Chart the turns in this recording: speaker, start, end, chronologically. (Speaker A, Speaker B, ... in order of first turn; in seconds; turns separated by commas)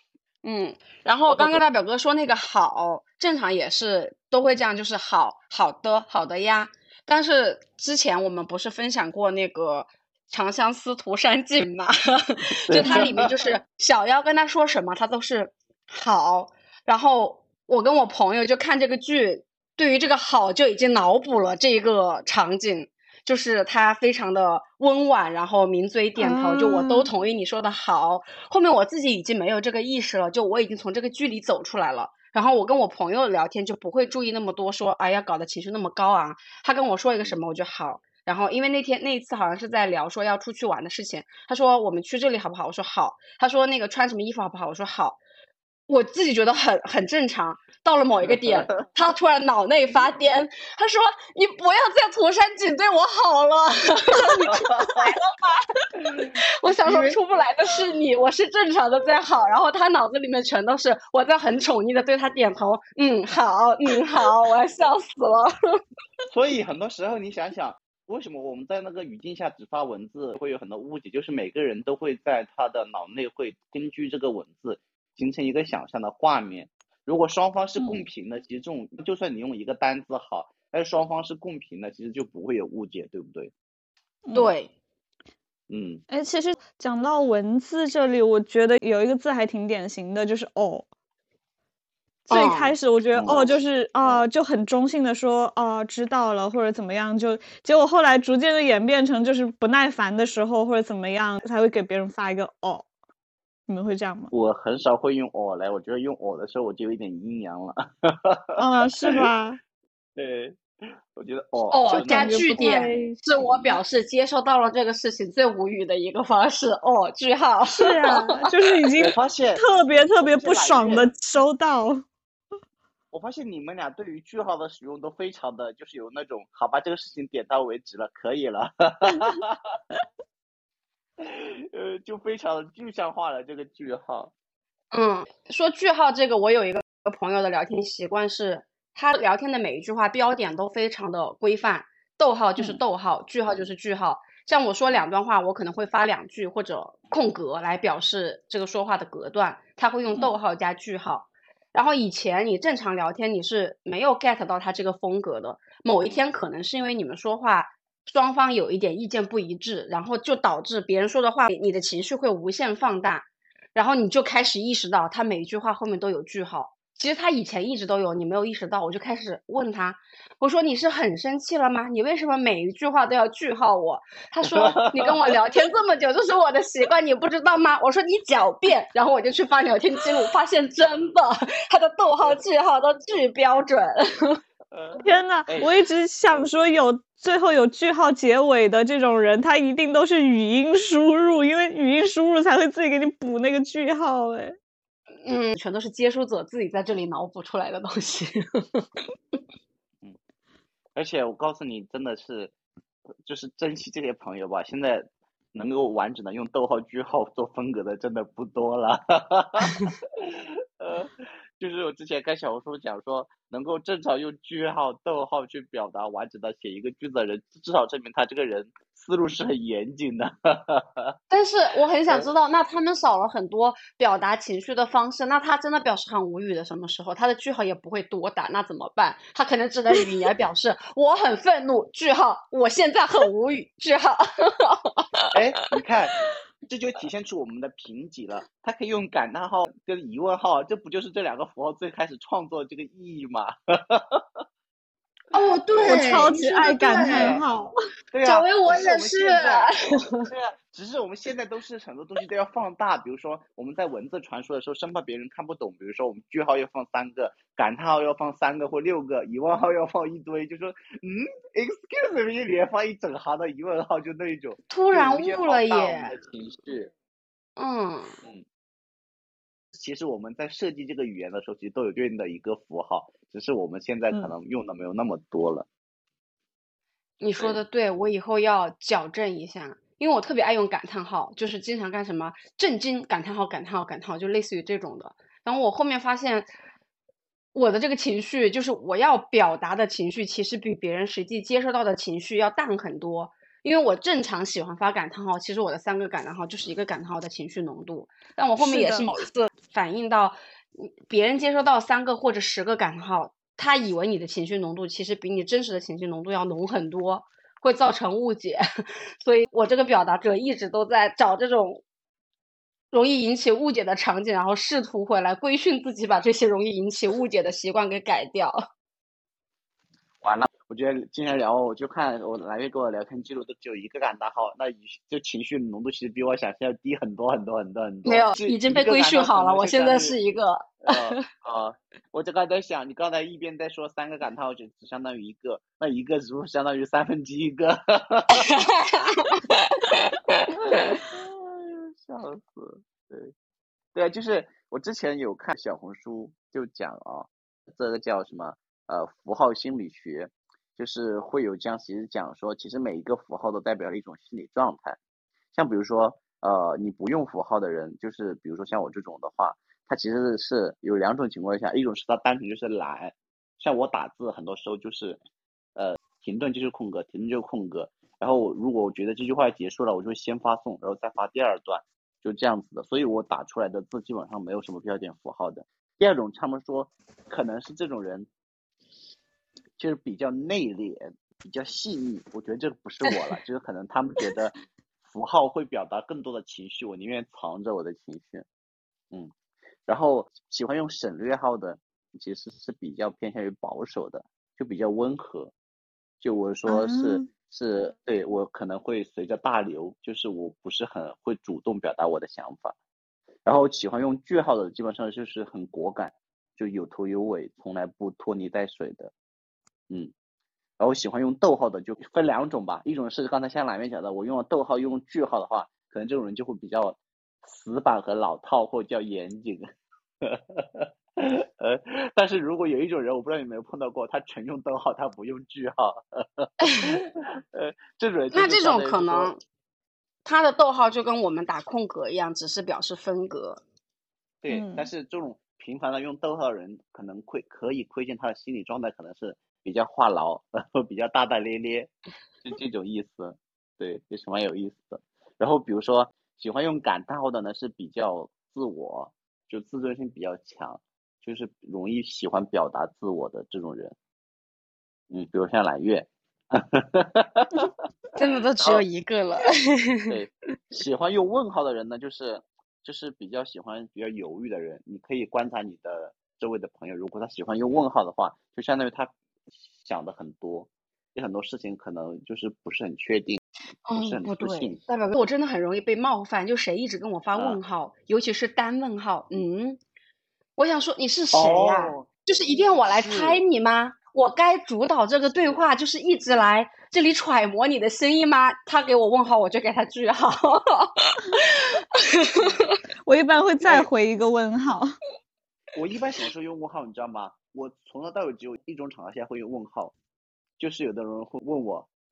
Speaker A: 0.4-45.2, Speaker B: 1.3-1.6, Speaker B: 12.7-13.3, Speaker C: 26.2-27.1, Speaker A: 45.9-65.8, Speaker B: 48.2-48.9, Speaker B: 54.5-55.1, Speaker B: 66.3-83.5, Speaker C: 84.2-84.5, Speaker A: 84.3-84.7, Speaker B: 85.7-86.0, Speaker C: 86.1-90.9, Speaker A: 92.3-93.6, Speaker C: 92.3-102.9, Speaker B: 93.1-93.5, Speaker C: 103.7-104.3, Speaker B: 104.3-109.3, Speaker C: 108.6-109.6, Speaker B: 110.2-110.6, Speaker B: 111.1-112.6, Speaker A: 111.7-118.5, Speaker C: 112.0-113.2, Speaker B: 113.4-113.8, Speaker C: 117.7-122.1, Speaker B: 119.0-119.7, Speaker B: 120.2-121.1, Speaker B: 123.1-129.6, Speaker B: 131.2-134.3, Speaker A: 134.9-184.4, Speaker B: 156.0-156.3, Speaker B: 174.5-175.3, Speaker B: 184.7-185.7, Speaker C: 185.0-194.6, Speaker A: 195.2-198.9, Speaker B: 200.9-202.5, Speaker B: 203.2-221.2, Speaker A: 221.3-235.2, Speaker B: 235.3-244.2, Speaker A: 245.3-247.4, Speaker B: 245.7-246.3, Speaker C: 245.8-247.7, Speaker B: 247.0-247.4, Speaker B: 248.1-249.7, Speaker A: 248.2-250.3, Speaker B: 250.2-266.9, Speaker A: 264.7-266.1, Speaker A: 267.6-268.2, Speaker B: 269.7-275.7, Speaker A: 277.2-286.5, Speaker A: 287.6-308.6, Speaker C: 298.6-299.1, Speaker A: 309.2-311.8, Speaker A: 312.9-318.6, Speaker B: 320.2-330.2, Speaker A: 328.1-331.2, Speaker B: 330.8-338.5, Speaker A: 338.4-339.4, Speaker B: 340.5-343.3, Speaker B: 343.9-355.0, Speaker B: 355.5-365.2, Speaker B: 365.8-378.3, Speaker B: 379.8-388.4, Speaker B: 389.9-395.5, Speaker B: 396.2-402.8, Speaker C: 396.7-397.3, Speaker B: 403.4-409.1, Speaker B: 410.8-419.7, Speaker B: 420.2-429.3, Speaker A: 426.6-427.0, Speaker A: 428.3-429.4, Speaker A: 430.2-433.6, Speaker B: 434.4-453.9, Speaker C: 434.5-434.9, Speaker B: 455.1-457.7, Speaker A: 458.2-460.1, Speaker B: 460.1-469.1, Speaker B: 469.8-473.4, Speaker A: 473.9-479.8, Speaker B: 474.0-474.8, Speaker B: 477.3-477.6, Speaker A: 480.6-492.8, Speaker B: 481.3-482.1, Speaker B: 482.9-483.4, Speaker B: 492.4-492.6, Speaker C: 493.1-495.0, Speaker B: 495.8-499.9, Speaker B: 500.6-501.9